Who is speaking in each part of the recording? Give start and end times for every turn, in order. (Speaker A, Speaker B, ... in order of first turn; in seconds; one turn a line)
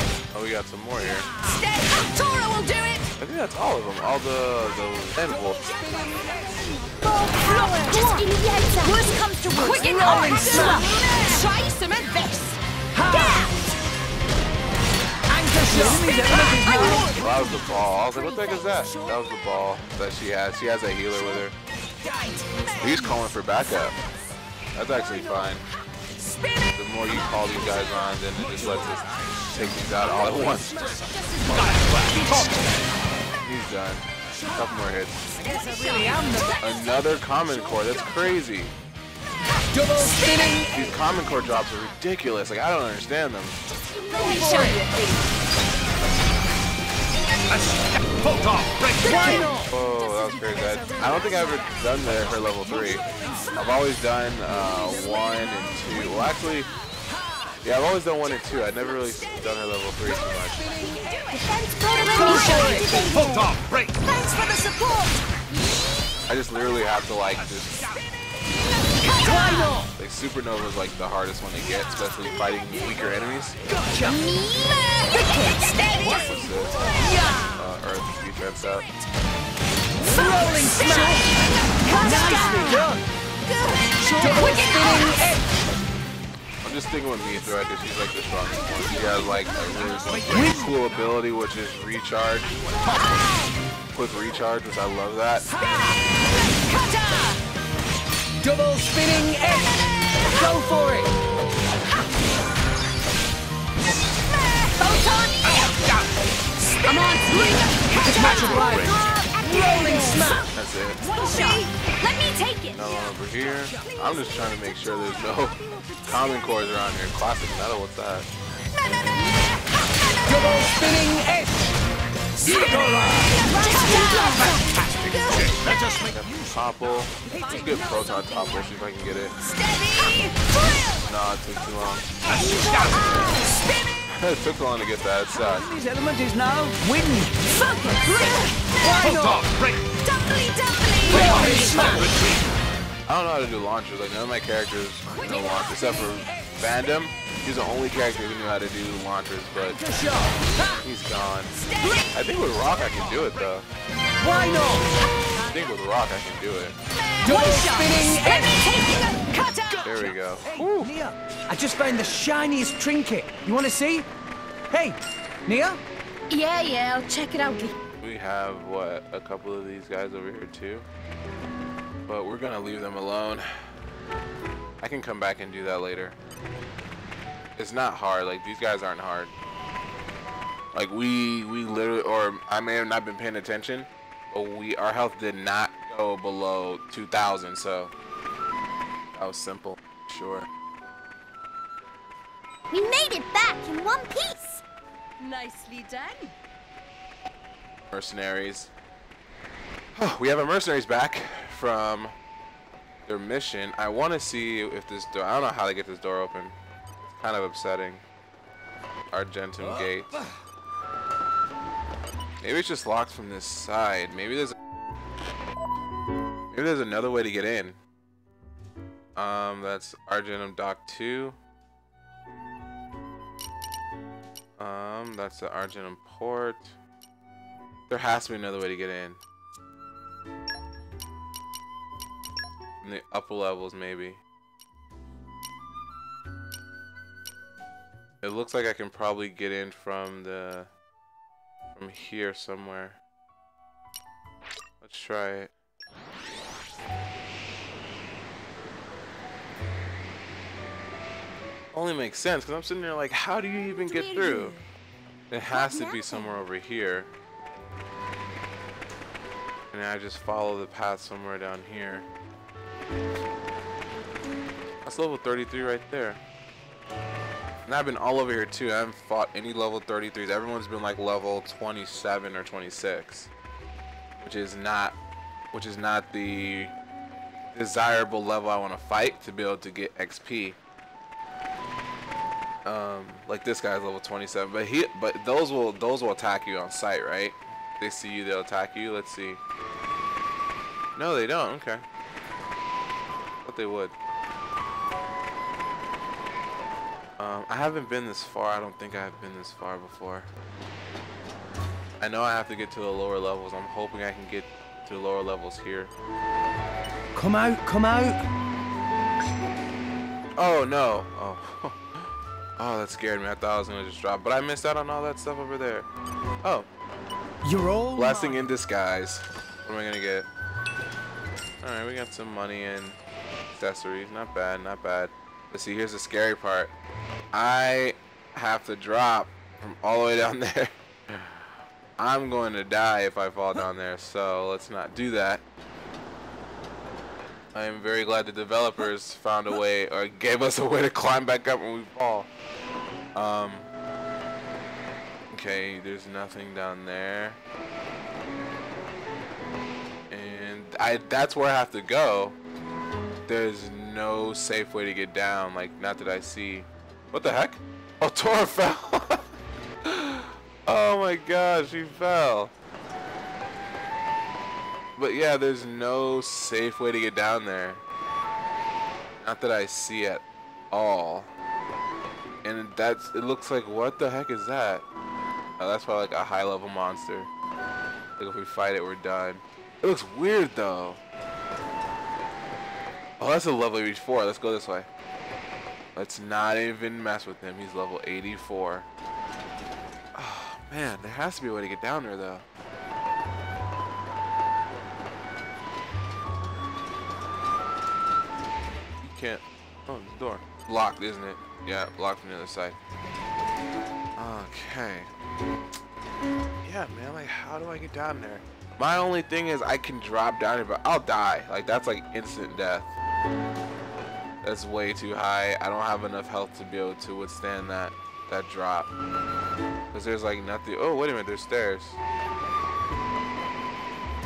Speaker A: 0.3-1.3
Speaker B: 1.3-3.1
Speaker A: 3.2-5.7
Speaker C: 5.8-11.2
Speaker B: 7.4-8.3
Speaker B: 8.8-12.6
Speaker D: 9.6-10.9
Speaker D: 12.9-13.3
Speaker B: 13.2-13.5
Speaker D: 15.3-17.2
Speaker B: 15.7-17.5
Speaker A: 17.1-21.6
Speaker A: 22.8-24.0
Speaker A: 24.7-25.6
Speaker B: 26.3-26.7
Speaker A: 26.7-31.1
Speaker E: 28.3-30.0
Speaker B: 30.6-32.4
Speaker E: 31.4-32.9
Speaker A: 33.4-35.3
Speaker B: 35.4-36.8
Speaker D: 35.4-36.6
Speaker A: 36.6-38.7
Speaker B: 39.8-40.7
Speaker A: 40.7-43.6
Speaker B: 44.0-45.3
Speaker D: 44.1-44.8
Speaker E: 47.5-49.6
Speaker D: 49.0-49.7
Speaker C: 49.2-52.2
Speaker A: 49.6-56.7
Speaker C: 53.1-53.5
Speaker A: 57.6-60.7
Speaker B: 60.6-62.9
Speaker C: 61.3-63.5
Speaker D: 62.1-63.0
Speaker E: 62.8-64.3
Speaker A: 66.3-67.9
Speaker E: 67.3-68.1
Speaker D: 69.2-69.9
Speaker A: 70.0-73.6
Speaker D: 73.6-74.2
Speaker C: 74.0-75.7
Speaker B: 74.7-77.4
Speaker A: 76.0-78.9
Speaker D: 77.0-77.4
Speaker B: 78.4-79.0
Speaker D: 80.0-81.3
Speaker B: 80.1-81.3
Speaker B: 81.8-82.8
Speaker D: 82.0-83.0
Speaker C: 82.0-82.9
Speaker B: 83.5-85.4
Speaker D: 84.0-85.3
Speaker A: 86.6-92.6
Speaker D: 90.0-90.8
Speaker E: 90.0-90.7
Speaker A: 93.9-95.5
Speaker B: 96.6-97.4
Speaker D: 98.4-99.7
Speaker D: 100.2-101.1
Speaker B: 104.6-105.9
Speaker E: 105.4-106.1
Speaker B: 106.8-109.2
Speaker D: 108.0-110.5
Speaker C: 108.2-110.5
Speaker E: 108.5-108.9
Speaker B: 109.8-110.4
Speaker A: 110.5-111.1
Speaker B: 111.0-113.2
Speaker D: 111.1-111.6
Speaker A: 112.7-118.3
Speaker D: 120.6-121.3
Speaker E: 122.4-127.1
Speaker C: 123.4-124.8
Speaker B: 123.5-124.5
Speaker A: 126.1-129.4
Speaker B: 127.2-128.8
Speaker D: 127.3-127.5
Speaker B: 129.4-130.9
Speaker A: 131.0-132.2
Speaker E: 132.2-133.4
Speaker C: 132.2-133.6
Speaker A: 134.1-135.7
Speaker D: 135.3-137.4
Speaker B: 137.4-138.7
Speaker D: 138.8-139.5
Speaker E: 138.9-139.9
Speaker B: 140.1-142.1
Speaker D: 141.0-142.1
Speaker E: 141.1-142.5
Speaker A: 143.1-150.0
Speaker D: 149.6-150.4
Speaker A: 150.8-151.6
Speaker B: 151.6-152.0
Speaker A: 152.1-153.7
Speaker E: 152.7-153.5
Speaker D: 154.2-154.9
Speaker A: 155.4-156.8
Speaker B: 157.2-160.1
Speaker D: 157.2-158.5
Speaker A: 159.8-160.9
Speaker D: 160.4-164.1
Speaker D: 164.7-165.8
Speaker B: 166.3-167.8
Speaker A: 168.0-170.9
Speaker A: 172.1-173.5
Speaker A: 174.8-176.2
Speaker A: 177.6-179.3
Speaker A: 180.7-187.9
Speaker A: 189.1-190.5
Speaker C: 192.7-194.6
Speaker B: 195.2-196.3
Speaker A: 197.9-198.7
Speaker A: 199.9-202.1
Speaker A: 203.1-208.0
Speaker A: 209.1-210.2
Speaker D: 209.6-210.3
Speaker A: 212.4-214.5
Speaker A: 216.5-217.8
Speaker A: 219.2-221.4
Speaker A: 224.6-226.8
Speaker A: 227.9-229.2
Speaker A: 232.8-234.2
Speaker A: 238.2-240.7
Speaker A: 241.7-243.0
Speaker A: 244.8-245.5
Speaker A: 251.7-254.6
Speaker B: 253.8-254.6
Speaker A: 255.3-257.1
Speaker B: 255.5-256.3
Speaker A: 259.7-262.1
Speaker A: 264.8-266.2
Speaker A: 267.6-273.3
Speaker A: 274.2-274.9
Speaker A: 275.5-276.7
Speaker A: 277.5-280.6
Speaker A: 282.6-289.4
Speaker A: 290.9-291.8
Speaker A: 293.4-293.9
Speaker A: 297.2-300.3
Speaker A: 302.0-305.9
Speaker D: 307.1-308.2
Speaker A: 310.4-315.9
Speaker D: 317.4-318.4
Speaker A: 317.9-320.3
Speaker A: 321.6-323.0
Speaker A: 323.5-326.7
Speaker A: 327.3-331.5
Speaker A: 332.0-335.4
Speaker A: 337.5-342.3
Speaker A: 343.1-343.7
Speaker A: 345.3-347.4
Speaker A: 350.1-352.4
Speaker A: 353.2-359.2
Speaker A: 359.8-362.5
Speaker A: 365.0-367.8
Speaker A: 369.2-371.3
Speaker A: 372.4-374.9
Speaker A: 375.6-377.3
Speaker A: 378.2-381.0
Speaker A: 383.2-384.9
Speaker A: 385.9-388.9
Speaker A: 390.1-392.4
Speaker A: 399.0-402.8
Speaker A: 404.2-405.1
Speaker A: 406.6-412.9
Speaker A: 414.4-418.9
Speaker A: 419.9-422.0